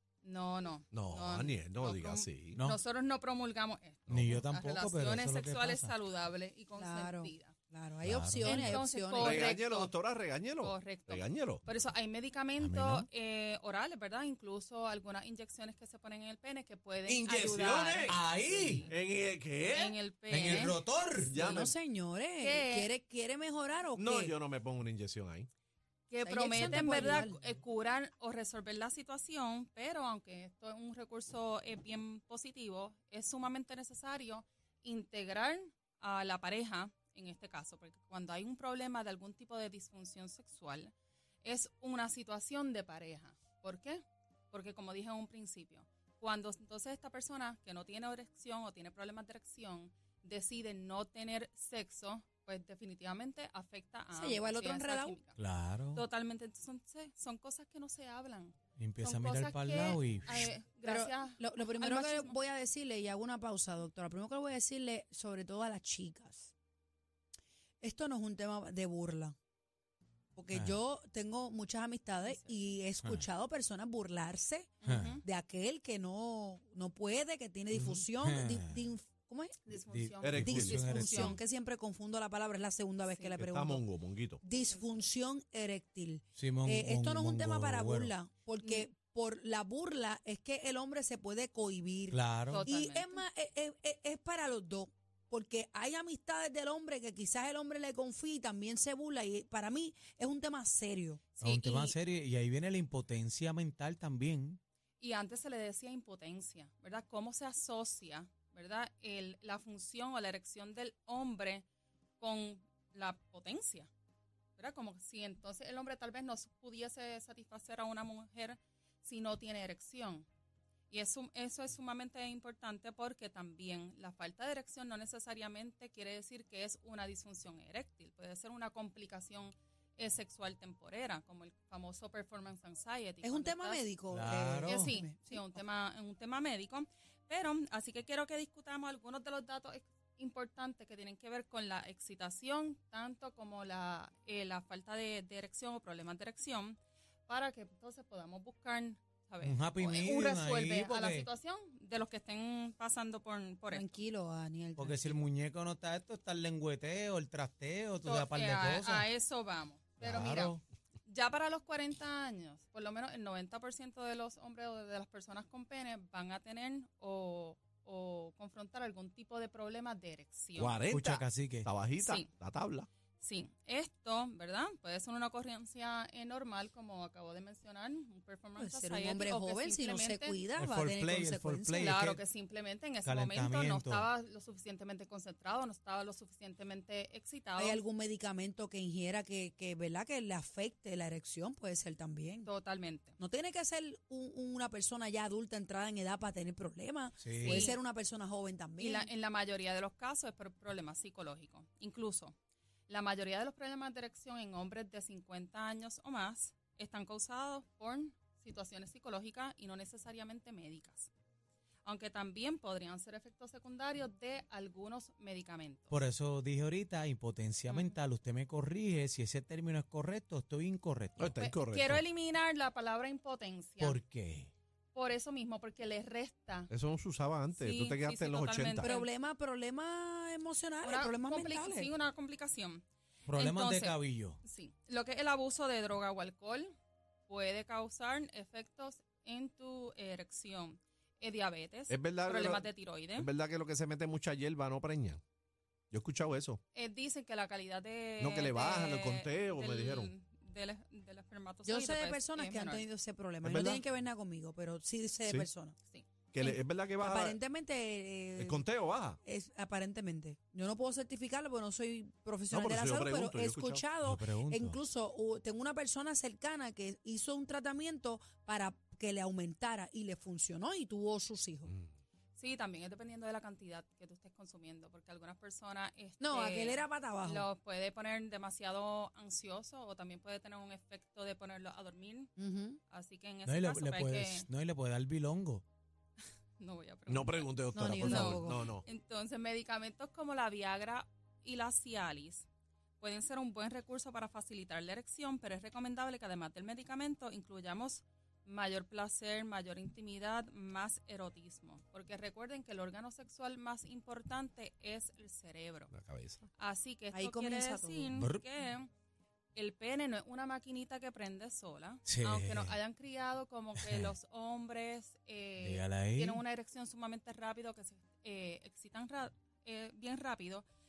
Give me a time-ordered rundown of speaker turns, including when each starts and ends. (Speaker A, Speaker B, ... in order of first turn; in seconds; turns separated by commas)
Speaker A: 0.2-7.5, Speaker B: 0.9-2.6, Speaker C: 2.5-2.8, Speaker B: 4.1-4.4, Speaker C: 4.1-5.9, Speaker D: 6.8-9.4, Speaker C: 8.0-8.8, Speaker A: 8.4-9.9, Speaker B: 9.2-11.6, Speaker A: 10.6-18.9, Speaker C: 12.6-13.1, Speaker B: 17.1-18.2, Speaker C: 18.0-18.8, Speaker B: 18.9-20.0, Speaker A: 19.6-20.8, Speaker C: 20.3-21.4, Speaker B: 21.2-21.7, Speaker D: 21.3-24.3, Speaker A: 22.4-22.9, Speaker B: 23.9-25.5, Speaker A: 26.1-55.4, Speaker D: 26.2-27.4, Speaker D: 54.1-55.2, Speaker C: 55.4-56.0, Speaker A: 55.9-62.4, Speaker C: 58.8-60.5, Speaker D: 60.8-66.5, Speaker D: 67.8-69.3, Speaker D: 70.3-79.7, Speaker C: 70.5-70.8, Speaker A: 72.2-72.8, Speaker A: 74.8-75.2, Speaker C: 74.8-75.2, Speaker C: 77.7-78.8, Speaker A: 79.7-81.4, Speaker C: 79.9-81.4, Speaker B: 80.2-80.8, Speaker D: 80.4-101.3, Speaker A: 83.0-83.4, Speaker B: 83.4-84.4, Speaker A: 84.5-85.0, Speaker C: 86.3-88.1, Speaker A: 88.6-88.9, Speaker C: 92.1-92.7, Speaker A: 92.5-93.2, Speaker A: 101.4-102.0, Speaker C: 101.4-104.6, Speaker A: 105.0-111.6, Speaker A: 112.2-113.9, Speaker A: 114.6-120.3, Speaker A: 120.9-133.8, Speaker D: 133.2-135.6, Speaker C: 134.1-134.9, Speaker A: 134.6-153.9, Speaker C: 149.4-151.3, Speaker D: 153.7-155.2, Speaker C: 154.8-159.1, Speaker A: 158.0-170.8, Speaker C: 160.0-160.6, Speaker B: 170.6-172.9, Speaker C: 170.9-171.7, Speaker A: 172.0-172.3, Speaker A: 173.2-180.4, Speaker D: 178.6-181.9, Speaker C: 180.6-182.2, Speaker A: 181.8-187.8, Speaker C: 183.0-184.1, Speaker D: 187.6-192.5, Speaker A: 192.4-193.2, Speaker D: 193.2-199.1, Speaker C: 197.2-197.7, Speaker A: 197.4-197.8, Speaker A: 198.8-202.3, Speaker A: 202.9-211.1, Speaker A: 211.8-216.0, Speaker C: 215.9-221.3, Speaker A: 217.7-218.0, Speaker B: 221.2-222.0, Speaker A: 221.4-224.0, Speaker C: 223.8-224.5, Speaker A: 224.9-226.7, Speaker B: 226.7-228.9, Speaker A: 227.6-229.1, Speaker D: 228.8-231.9, Speaker A: 230.8-236.7, Speaker C: 233.2-234.4, Speaker A: 237.3-243.3, Speaker B: 241.9-245.2, Speaker B: 245.9-246.6, Speaker A: 246.7-252.9, Speaker B: 248.2-250.1, Speaker D: 251.6-255.8, Speaker B: 253.4-253.8, Speaker B: 256.3-257.4, Speaker D: 256.4-258.6, Speaker B: 258.4-259.2, Speaker D: 259.2-271.7, Speaker B: 262.5-263.8, Speaker C: 264.0-264.8, Speaker A: 272.4-282.3, Speaker D: 276.2-277.5, Speaker D: 282.4-282.8, Speaker A: 282.9-284.5, Speaker C: 283.4-285.6, Speaker A: 286.6-292.4, Speaker B: 287.1-288.9, Speaker D: 287.7-288.7, Speaker A: 293.0-305.9, Speaker B: 305.9-306.4, Speaker A: 306.5-308.9, Speaker D: 307.1-308.1, Speaker C: 308.2-308.4, Speaker A: 309.5-320.6, Speaker C: 312.0-312.8, Speaker C: 313.8-314.1, Speaker C: 315.6-316.4